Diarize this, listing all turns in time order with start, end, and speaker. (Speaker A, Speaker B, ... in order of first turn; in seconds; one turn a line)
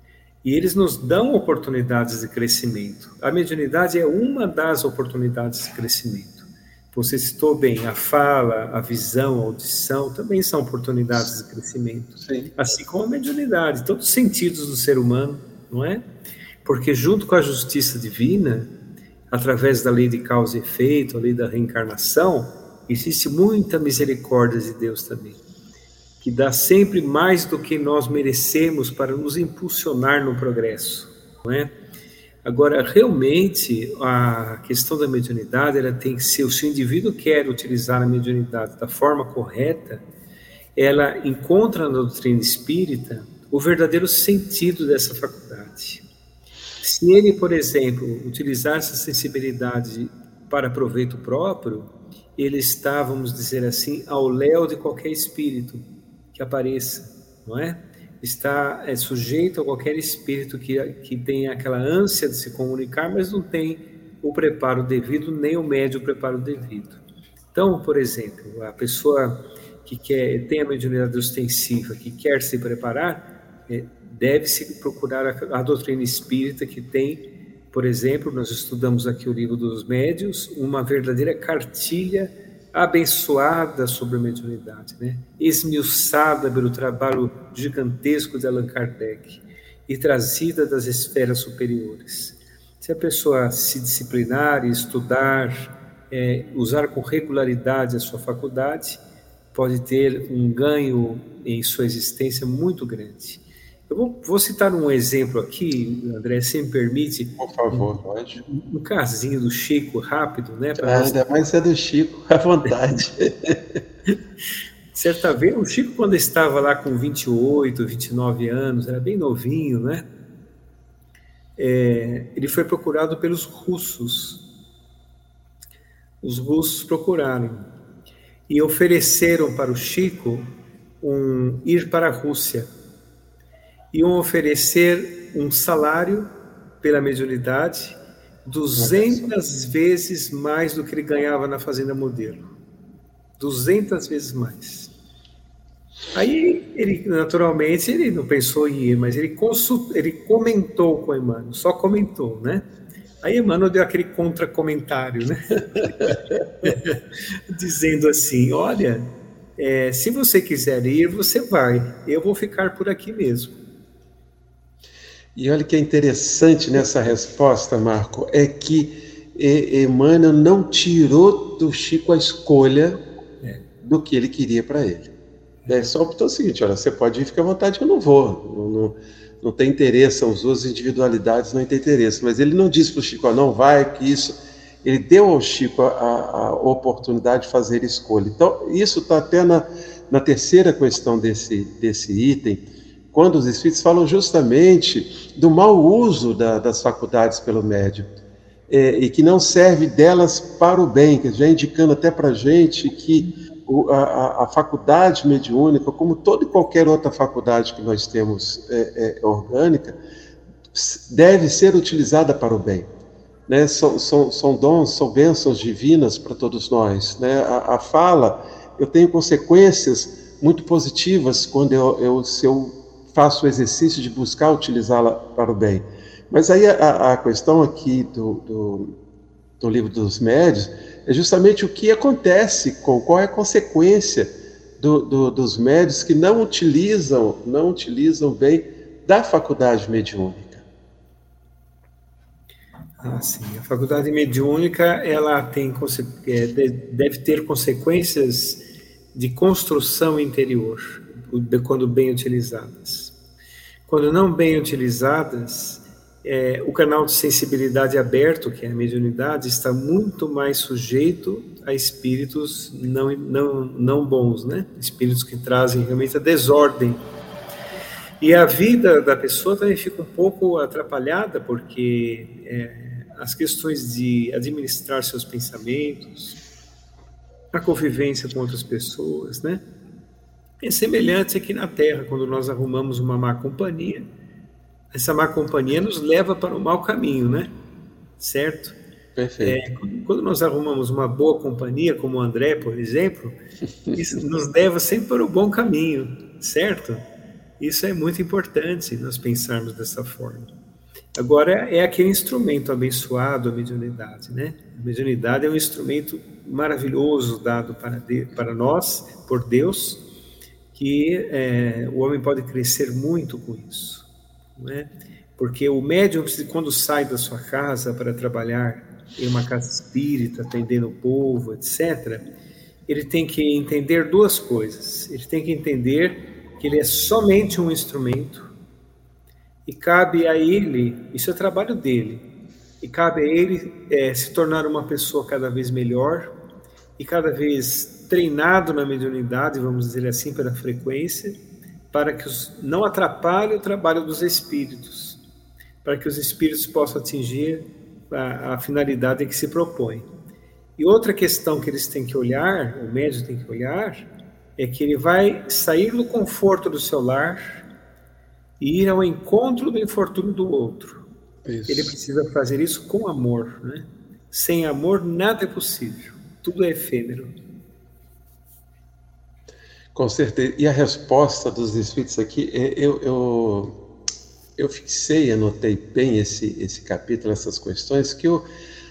Speaker A: 0.4-16.0
Speaker B: 12.2-12.5
Speaker A: 16.6-18.7
Speaker A: 19.3-25.4
Speaker A: 26.2-31.7
Speaker A: 32.4-40.0
Speaker A: 40.8-46.0
Speaker A: 46.8-67.0
Speaker A: 67.5-99.0
Speaker A: 99.5-107.9
Speaker B: 107.4-108.4
Speaker A: 108.5-111.2
Speaker B: 110.8-113.8
Speaker A: 114.9-120.0
Speaker A: 121.6-124.4
Speaker A: 126.2-127.7
Speaker A: 128.5-132.7
Speaker A: 133.9-142.5
Speaker B: 138.8-139.3
Speaker A: 143.4-144.9
Speaker A: 146.1-152.7
Speaker A: 153.2-163.6
Speaker B: 165.3-173.0
Speaker B: 173.8-175.1
Speaker A: 175.6-175.9
Speaker B: 175.7-198.1
Speaker B: 198.7-210.0
Speaker B: 210.7-212.9
Speaker B: 213.5-229.0
Speaker B: 229.6-240.6
Speaker A: 243.0-248.6
Speaker A: 249.1-253.1
Speaker A: 253.9-267.0
Speaker A: 268.2-276.4
Speaker A: 277.5-279.6
Speaker A: 280.6-284.1
Speaker A: 284.9-287.5
Speaker A: 288.2-288.8
Speaker B: 289.1-289.6
Speaker A: 289.4-293.4
Speaker A: 293.9-297.0
Speaker A: 297.6-300.5
Speaker A: 301.1-310.0
Speaker A: 310.7-314.0
Speaker A: 314.6-322.2
Speaker A: 322.9-328.5
Speaker A: 329.6-332.2
Speaker A: 332.8-336.3
Speaker A: 337.0-341.4
Speaker A: 341.9-345.2
Speaker A: 345.8-350.1
Speaker A: 350.8-357.6
Speaker A: 358.6-361.0
Speaker B: 361.4-361.9
Speaker A: 361.7-367.3
Speaker B: 369.9-373.8
Speaker B: 374.6-378.4